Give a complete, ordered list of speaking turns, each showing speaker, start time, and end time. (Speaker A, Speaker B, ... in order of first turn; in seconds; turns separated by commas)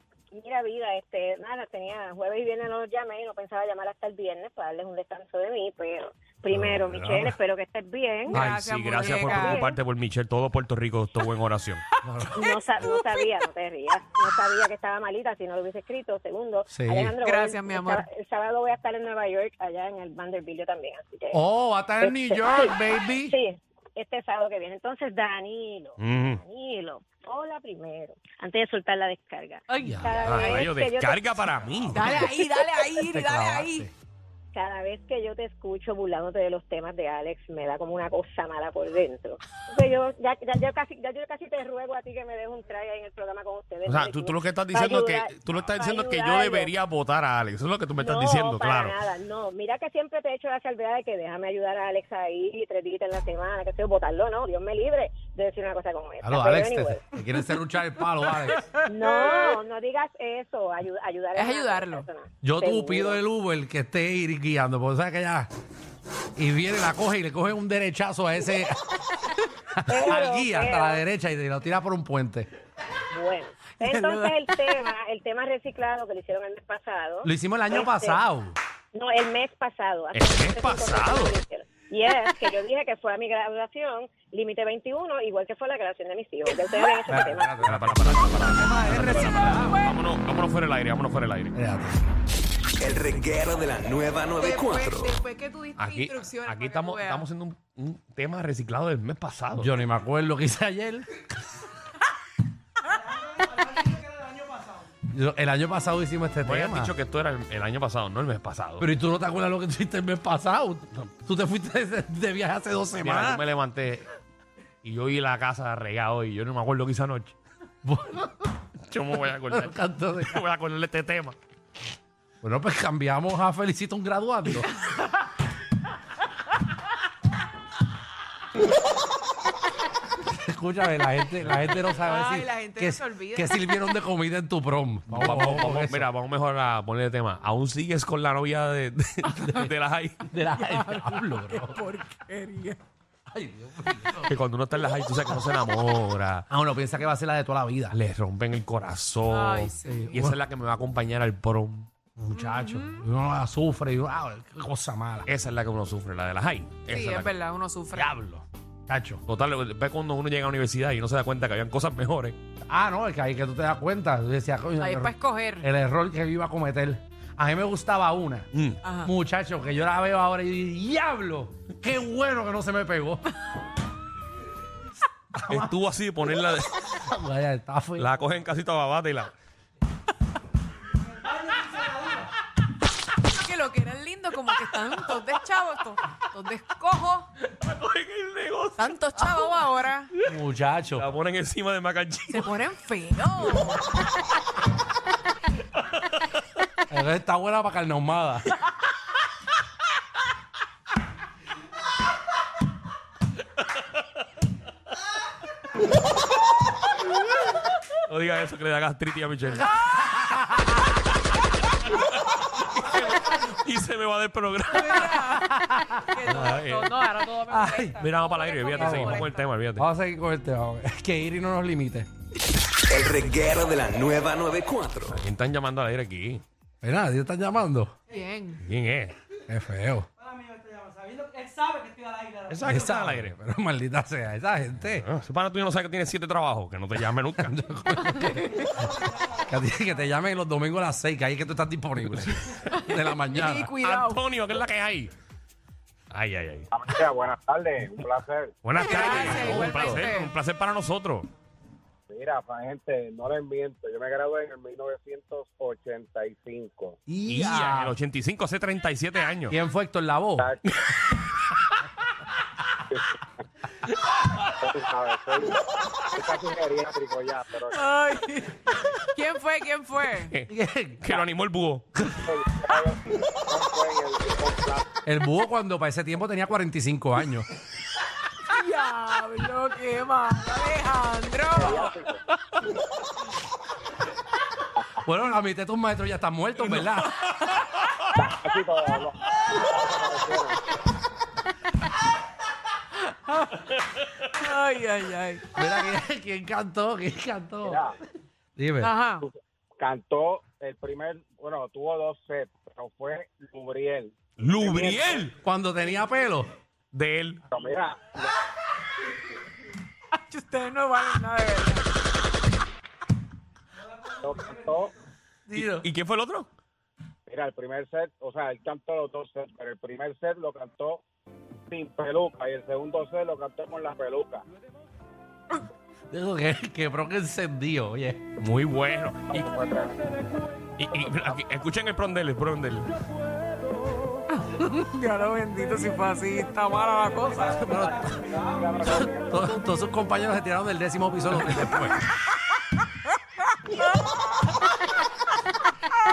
Speaker A: 0.3-9.8, Speaker B: 6.5-7.2, Speaker C: 8.3-9.7, Speaker B: 8.3-11.8, Speaker D: 12.0-12.5, Speaker A: 12.3-21.4, Speaker D: 16.7-17.1, Speaker C: 17.2-18.0, Speaker D: 21.3-23.4, Speaker A: 22.0-31.2, Speaker B: 26.0-26.4, Speaker C: 29.7-30.0, Speaker D: 29.8-30.3, Speaker B: 30.2-32.2, Speaker D: 31.9-33.9, Speaker C: 31.9-33.9, Speaker A: 34.5-46.7, Speaker B: 43.9-49.0, Speaker A: 48.0-57.1, Speaker D: 56.2-58.6, Speaker A: 58.8-63.2, Speaker C: 61.3-62.0, Speaker D: 62.4-65.5, Speaker D: 66.4-69.0, Speaker D: 69.7-72.5, Speaker A: 69.9-71.0, Speaker A: 73.1-78.2, Speaker D: 77.2-78.5, Speaker A: 78.9-87.7, Speaker B: 80.1-81.3, Speaker D: 87.1-89.8, Speaker B: 87.7-91.5, Speaker C: 89.1-90.0, Speaker D: 91.5-92.0, Speaker E: 92.8-95.2, Speaker C: 94.4-97.3, Speaker B: 95.8-99.8, Speaker D: 99.6-101.1, Speaker D: 105.0-106.9, Speaker B: 106.4-108.9, Speaker D: 108.8-113.4, Speaker B: 113.0-114.0, Speaker B: 114.8-117.3, Speaker D: 117.8-118.5, Speaker B: 118.8-121.3, Speaker D: 119.4-120.4, Speaker D: 122.4-124.7, Speaker D: 130.2-136.1, Speaker B: 131.4-131.8, Speaker C: 132.0-133.5, Speaker B: 135.1-140.3, Speaker D: 140.3-141.8, Speaker C: 140.5-142.8, Speaker D: 143.3-144.3, Speaker B: 144.2-146.5, Speaker D: 146.5-147.9, Speaker B: 147.9-151.9, Speaker C: 149.2-150.1, Speaker D: 149.8-150.4, Speaker D: 152.2-155.3, Speaker C: 152.3-153.1, Speaker B: 155.3-157.3, Speaker C: 156.8-158.2, Speaker D: 157.9-159.2, Speaker B: 159.3-162.4, Speaker D: 162.7-168.5, Speaker C: 164.8-165.7, Speaker B: 168.5-168.8, Speaker C: 168.8-169.1, Speaker D: 169.0-173.2, Speaker D: 175.3-175.7, Speaker B: 175.5-177.0, Speaker D: 176.9-178.1, Speaker B: 178.0-179.3, Speaker F: 181.5-182.1, Speaker C: 183.2-187.3, Speaker B: 187.4-189.2, Speaker C: 188.8-190.1, Speaker D: 190.2-191.1, Speaker B: 190.9-192.6, Speaker C: 192.3-193.9, Speaker D: 196.9-198.5, Speaker B: 208.1-210.2, Speaker D: 210.2-210.7, Speaker B: 212.0-215.3, Speaker C: 214.7-219.4, Speaker D: 215.5-216.0, Speaker B: 216.2-217.0, Speaker D: 217.5-218.0, Speaker B: 218.0-219.8, Speaker D: 218.8-222.1, Speaker E: 222.9-225.2, Speaker B: 225.0-226.4, Speaker D: 226.8-227.9, Speaker C: 228.1-228.6, Speaker B: 228.6-229.1, Speaker D: 229.5-230.1, Speaker F: 230.8-232.3, Speaker B: 232.5-233.3, Speaker D: 232.6-235.1, Speaker B: 234.9-237.6, Speaker D: 237.4-238.6, Speaker C: 238.1-238.8, Speaker D: 239.3-243.7, Speaker B: 242.1-242.7, Speaker C: 242.7-244.2, Speaker B: 243.8-245.1, Speaker B: 246.1-246.7, Speaker G: 246.7-248.5, Speaker B: 248.6-251.3, Speaker C: 248.7-250.3, Speaker G: 249.1-249.6, Speaker D: 249.2-250.1, Speaker G: 252.1-257.0, Speaker D: 257.1-258.0, Speaker B: 257.3-259.6, Speaker D: 259.5-260.5, Speaker G: 264.4-265.5, Speaker G: 266.1-267.8, Speaker C: 267.7-270.4, Speaker D: 270.5-271.2, Speaker B: 271.0-271.9, Speaker D: 272.0-272.2, Speaker G: 272.1-274.8, Speaker D: 275.0-277.4, Speaker C: 278.5-282.0, Speaker G: 281.6-282.2, Speaker D: 285.0-287.2, Speaker B: 286.7-287.3, Speaker G: 288.1-290.6, Speaker C: 294.3-295.5, Speaker D: 295.5-297.8, Speaker G: 297.6-297.9, Speaker D: 298.6-298.9, Speaker C: 298.8-299.2, Speaker G: 299.2-305.3, Speaker B: 304.4-305.3, Speaker D: 305.4-306.5, Speaker B: 306.9-307.4, Speaker G: 307.5-308.2, Speaker C: 310.1-311.8, Speaker G: 314.2-314.9, Speaker D: 315.5-315.9, Speaker B: 315.5-316.5, Speaker G: 317.3-321.0, Speaker G: 321.7-324.4, Speaker D: 326.1-328.3, Speaker B: 328.4-329.5, Speaker G: 329.3-330.0, Speaker B: 330.8-332.9, Speaker C: 334.4-337.7, Speaker D: 337.5-338.2, Speaker G: 337.9-339.1, Speaker D: 338.8-342.1, Speaker C: 343.6-344.2